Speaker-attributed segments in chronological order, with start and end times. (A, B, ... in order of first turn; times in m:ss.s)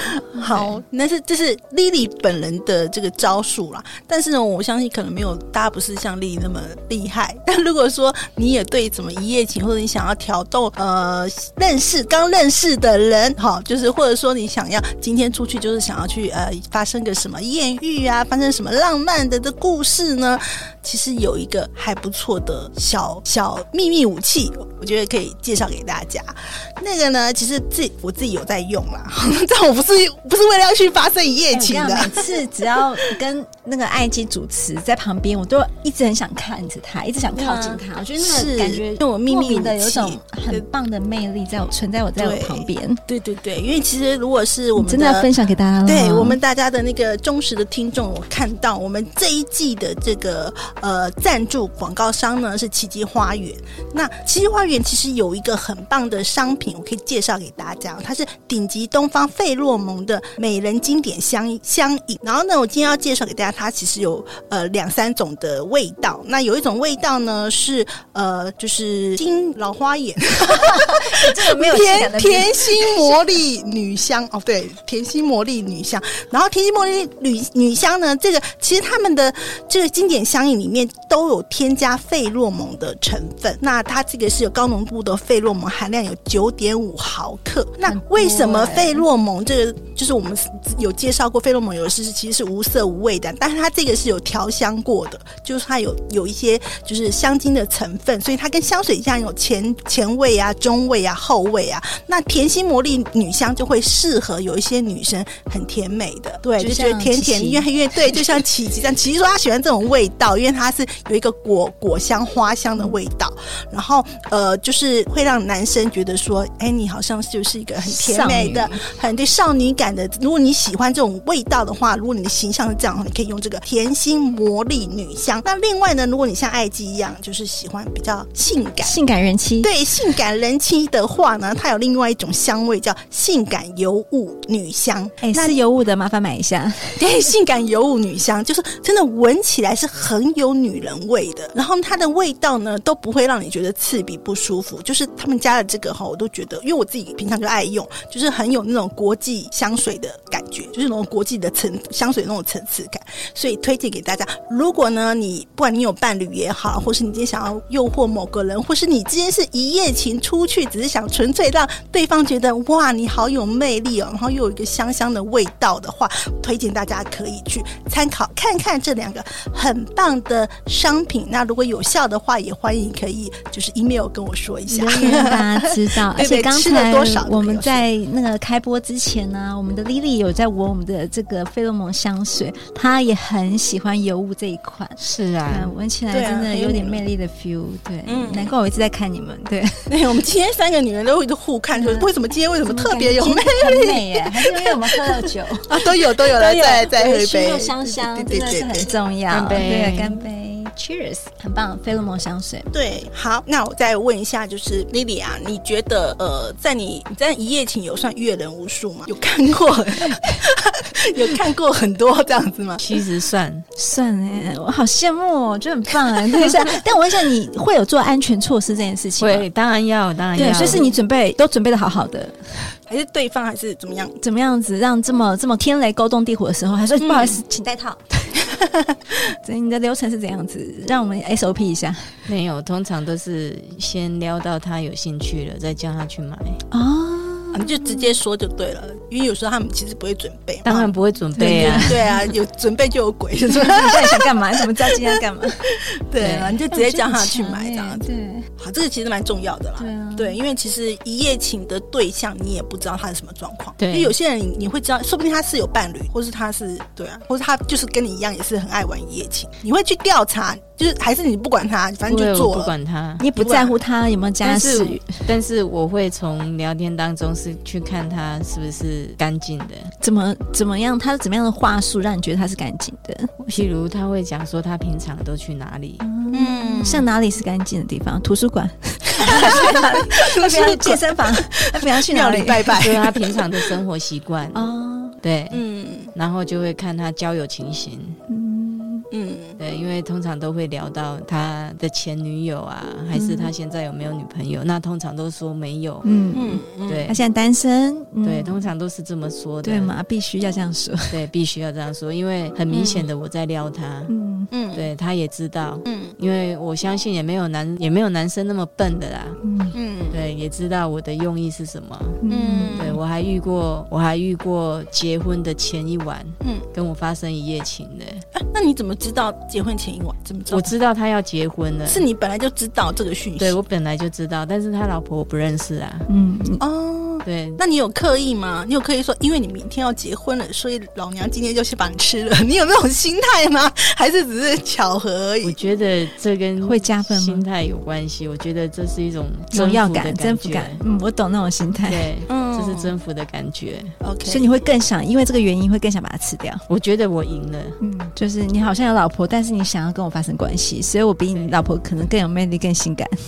0:00.4-0:32.2 A
0:31.5-0:43.0 B
0:37.4-0:40.6 A
0:42.2-0:45.3 A
0:44.8-0:46.4 B
0:45.8-2:08.9 A
1:10.5-1:13.2 B
1:27.9-1:29.0 B
1:46.6-1:47.7 B
1:57.8-1:58.8 B
2:08.8-2:09.7 B
2:09.6-2:15.6 A
2:15.2-2:17.0 B
2:17.0-2:57.8 A
2:54.7-3:09.9 B
3:05.0-3:05.7 C
3:06.1-3:07.0 A
3:08.1-3:08.5 A
3:09.9-3:18.9 A
3:11.7-3:12.1 B
3:12.6-3:22.7 B
3:19.3-3:20.2 C
3:22.7-3:32.8 A
3:32.8-3:33.6 C
3:33.8-3:39.4 B
3:39.2-3:40.9 C
3:40.4-3:42.7 B
3:40.4-3:41.0 A
3:42.9-3:44.2 A
3:44.2-3:48.0 B
3:47.0-3:47.4 A
3:48.5-3:48.9 A
3:49.2-3:52.3 B
3:52.3-3:56.6 C
3:56.7-3:58.2 B
3:57.5-4:00.9 A
4:00.6-4:02.1 C
4:01.3-4:02.2 B
4:01.8-4:08.0 A
4:03.4-4:05.7 B
4:06.2-4:06.6 C
4:06.7-4:08.5 B
4:08.6-4:22.7 A
4:09.8-4:10.4 B
4:13.8-4:14.1 C
4:22.1-4:23.2 C
4:23.2-4:25.3 B
4:23.4-4:23.8 A
4:24.4-4:29.9 C
4:30.0-4:33.3 B
4:33.4-4:36.0 C
4:36.0-4:42.8 B
4:36.3-4:37.1 A
4:39.2-4:43.6 A
4:42.8-4:44.7 C
4:44.5-4:45.2 B
4:45.2-4:48.2 C
4:45.5-4:46.1 A
4:48.3-4:49.1 B
4:49.1-4:49.6 A
4:49.6-4:56.1 C
4:53.1-4:53.5 B
4:56.0-4:58.6 B
4:56.3-4:57.1 A
4:56.9-4:57.2 C
4:58.2-4:59.9 C
4:59.6-5:01.2 B
5:01.1-5:04.1 C
5:02.7-5:03.1 A
5:04.1-5:04.5 B
5:04.5-5:04.9 A
5:04.7-5:09.4 C
5:05.9-5:06.2 A
5:09.4-5:09.7 B
5:09.7-5:10.2 A
5:10.1-5:18.2 C
5:12.2-5:13.0 B
5:12.3-5:13.0 A
5:16.4-5:16.7 A
5:18.4-5:20.7 A
5:20.5-5:22.0 C
5:21.9-5:23.6 A
5:23.4-5:26.1 C
5:26.1-5:26.6 B
5:26.6-5:35.6 A
5:27.2-5:27.6 C
5:35.4-5:40.8 C
5:36.6-5:37.4 B
5:39.5-5:42.0 B
5:41.8-5:43.9 C
5:42.3-5:42.9 A
5:44.0-5:44.7 A
5:44.3-5:46.6 B
5:46.7-5:47.8 C
5:47.8-5:53.2 B